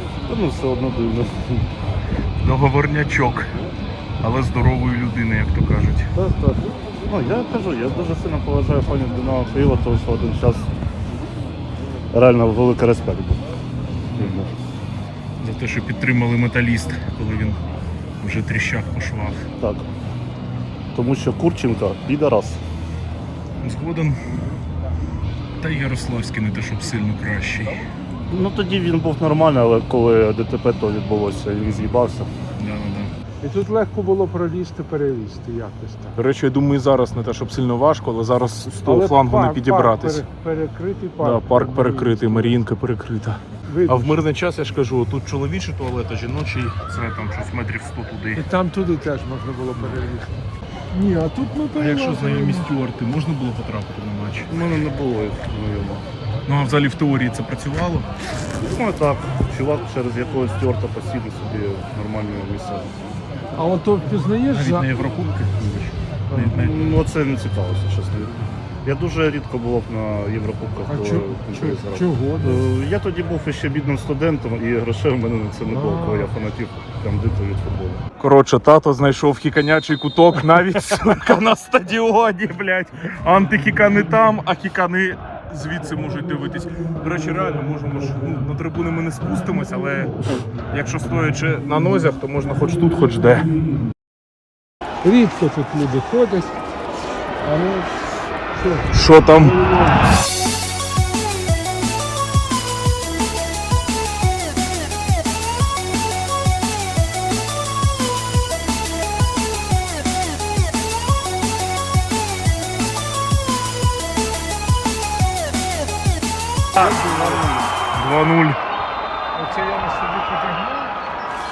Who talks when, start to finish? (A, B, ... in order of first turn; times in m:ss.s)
0:00.3-0:01.7 A
0:02.4-0:03.5 B
0:04.2-0:06.1 B
0:06.2-0:10.7 A
0:12.1-0:13.4 A
0:14.2-0:14.5 A
0:15.4-0:17.6 B
0:18.2-0:19.4 B
0:19.6-0:19.9 A
0:20.9-0:22.6 A
0:23.6-0:24.2 B
0:25.6-0:27.9 B
0:28.3-0:32.3 A
0:32.6-0:33.1 B
0:33.4-0:36.2 C
0:36.2-0:40.2 B
0:38.8-0:42.6 C
0:41.2-0:48.4 B
0:43.7-0:44.2 C
0:48.4-0:52.7 C
0:49.8-0:50.1 B
0:51.8-0:54.5 B
0:54.5-0:56.0 A
0:56.5-0:58.1 B
0:58.6-1:03.0 A
1:03.6-1:04.9 C
1:04.5-1:06.9 B
1:06.3-1:06.6 C
1:06.5-1:18.0 A
1:10.9-1:12.6 C
1:15.7-1:16.3 C
1:18.2-1:33.5 B
1:35.0-1:36.6 C
1:37.4-1:38.0 C
1:38.5-1:38.9 C
1:38.9-1:39.7 B
1:56.7-1:57.7 C
1:56.8-1:57.4 B
1:57.9-1:58.6 B
1:59.4-2:00.9 C